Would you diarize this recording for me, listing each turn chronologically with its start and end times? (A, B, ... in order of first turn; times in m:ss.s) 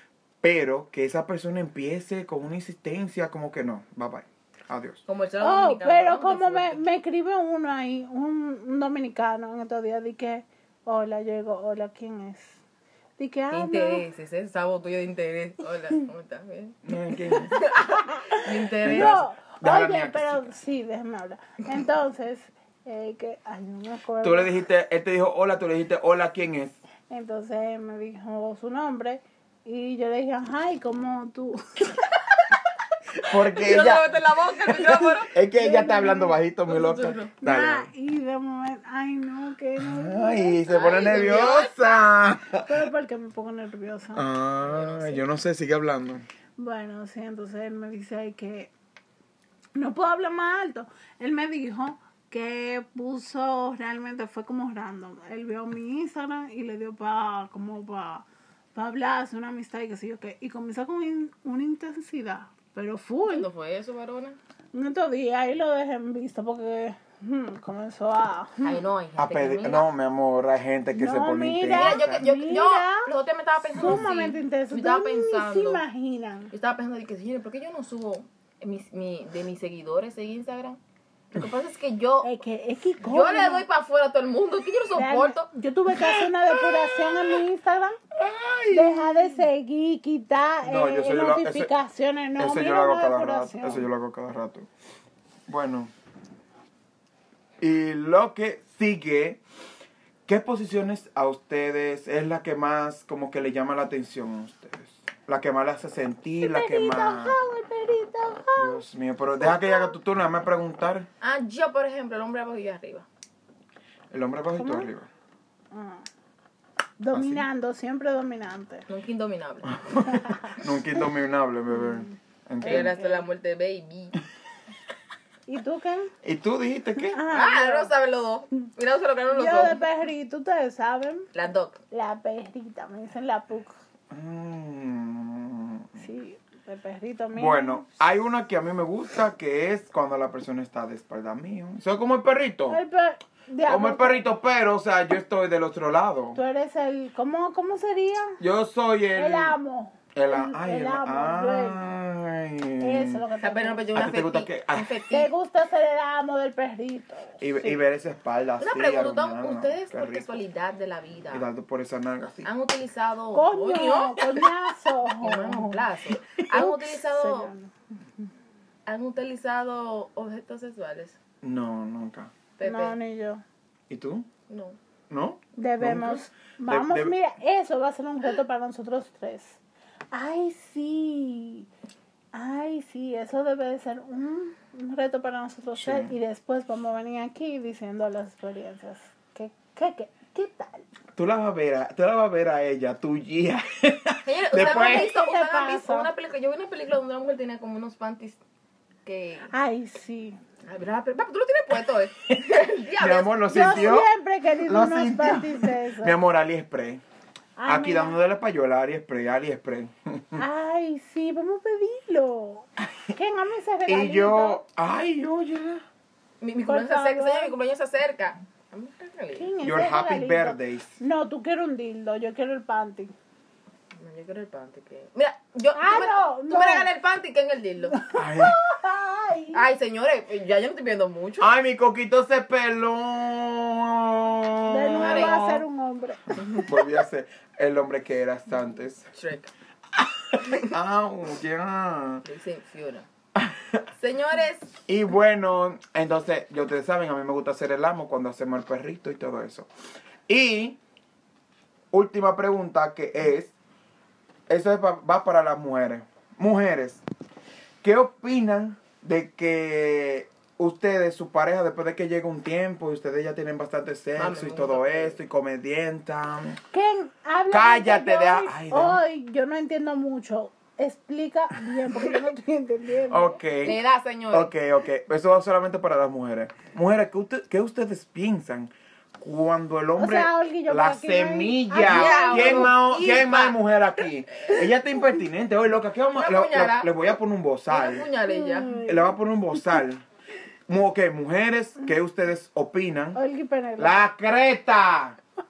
0:00.4-0:05.0 A
0:05.1-0:06.8 B
0:05.4-0:12.6 C
0:13.2-0:14.0 C
0:13.5-0:16.8 B
0:16.8-0:17.6 A
0:17.5-0:19.2 B
0:18.0-0:24.6 C
0:18.8-0:20.5 A
0:24.2-0:26.8 A
0:27.1-0:32.2 C
0:33.2-0:37.9 A
0:33.3-0:35.3 B
0:35.5-0:36.4 C
0:36.7-0:37.3 B
0:37.4-0:40.6 C
0:39.8-0:42.8 A
0:40.7-0:42.1 B
0:42.6-0:44.2 C
0:44.1-0:46.2 A
0:44.6-0:45.2 B
0:46.6-0:48.7 C
0:49.7-1:03.5 C
1:03.2-1:04.4 B
1:04.7-1:08.8 C
1:08.6-1:09.9 B
1:09.2-1:12.2 A
1:10.9-1:13.1 C
1:11.7-1:15.8 B
1:13.7-1:16.5 C
1:16.5-1:20.8 B
1:21.3-1:22.3 B
1:22.2-1:23.6 C
1:23.0-1:25.5 B
1:24.9-1:28.0 C
1:26.1-1:27.3 A
1:28.2-1:29.4 A
1:28.7-1:33.9 C
1:30.6-1:31.7 A
1:32.4-1:34.7 A
1:35.5-1:35.9 A
1:37.6-1:39.4 A
1:40.3-1:47.4 A
1:46.4-1:48.8 C
1:48.6-1:51.1 A
1:49.4-1:50.0 C
1:51.2-1:53.0 B
1:54.1-1:55.1 A
1:54.6-1:54.9 C
1:55.7-1:56.0 C
1:57.0-1:58.8 C
1:57.1-1:57.4 A
1:58.9-1:59.8 B
1:59.6-2:02.9 A
2:00.0-2:00.6 C
2:01.7-2:03.3 C
2:02.6-2:04.2 B
2:05.5-2:06.1 C
2:06.2-2:07.2 A
2:07.1-2:07.9 C
2:07.3-2:09.8 B
2:09.3-2:11.3 C
2:11.3-2:11.8 B
2:11.9-2:13.7 C
2:14.1-2:16.0 A
2:16.0-2:17.9 C
2:17.3-2:22.8 A
2:22.7-2:24.3 C
2:23.6-2:26.4 A
2:26.3-2:28.4 C
2:28.4-2:29.6 A
2:29.1-2:31.9 C
2:30.1-2:33.2 A
2:32.8-2:34.1 C
2:33.4-2:35.3 B
2:33.9-2:34.9 A
2:35.1-2:37.5 C
2:37.4-2:40.4 A
2:38.6-2:41.5 B
2:41.3-2:42.5 A
2:42.4-2:44.4 B
2:43.3-2:45.9 C
2:45.2-2:47.5 B
2:46.5-2:47.7 C
2:48.8-2:51.2 B
2:51.4-2:52.3 A
2:52.6-2:53.0 B
2:52.6-2:53.4 C
2:53.9-2:54.3 A
2:54.5-2:54.8 B
2:55.1-2:57.2 A
2:55.6-2:59.6 C
3:00.1-3:01.7 C
3:02.3-3:10.8 C
3:05.8-3:06.1 A
3:11.2-3:15.1 A
3:14.2-3:18.4 B
3:14.5-3:16.1 C
3:19.0-3:19.5 B
3:19.5-3:20.4 C
3:20.6-3:23.3 B
3:22.3-3:24.1 A
3:23.5-3:26.2 C
3:24.6-3:27.0 A
3:27.6-3:28.2 C
3:27.6-3:30.4 A
3:30.4-3:34.6 C
3:33.9-3:35.8 A
3:36.4-3:39.5 B
3:36.6-3:37.5 C
3:39.4-3:43.1 C
3:39.6-3:41.0 A
3:43.9-3:48.0 B
3:45.7-3:46.9 C
3:47.9-3:49.6 C
3:48.1-3:48.6 A
3:49.5-3:51.5 B
3:51.4-3:55.4 A
3:54.6-3:56.7 C
3:55.0-3:55.6 B
3:56.3-3:59.1 A
3:59.1-3:59.5 B
4:00.0-4:02.2 A
4:00.4-4:00.7 B
4:02.2-4:03.1 B
4:03.3-4:03.8 A
4:04.0-4:04.7 B
4:04.9-4:09.7 A
4:10.3-4:10.8 A
4:11.9-4:13.5 A
4:14.5-4:17.0 A
4:17.8-4:26.6 A
4:24.2-4:25.2 B
4:26.7-4:33.8 C
4:27.5-4:29.0 A
4:33.1-4:33.8 A
4:33.6-4:34.5 B
4:34.3-4:48.1 A
4:40.0-4:42.7 C
4:41.8-4:43.6 B
4:44.3-4:44.6 B
4:46.1-4:47.0 B
4:47.7-4:48.8 B
4:48.3-4:49.1 C
4:48.8-4:50.0 A
4:50.7-4:53.2 A
4:53.1-4:54.0 C
4:53.8-4:55.2 A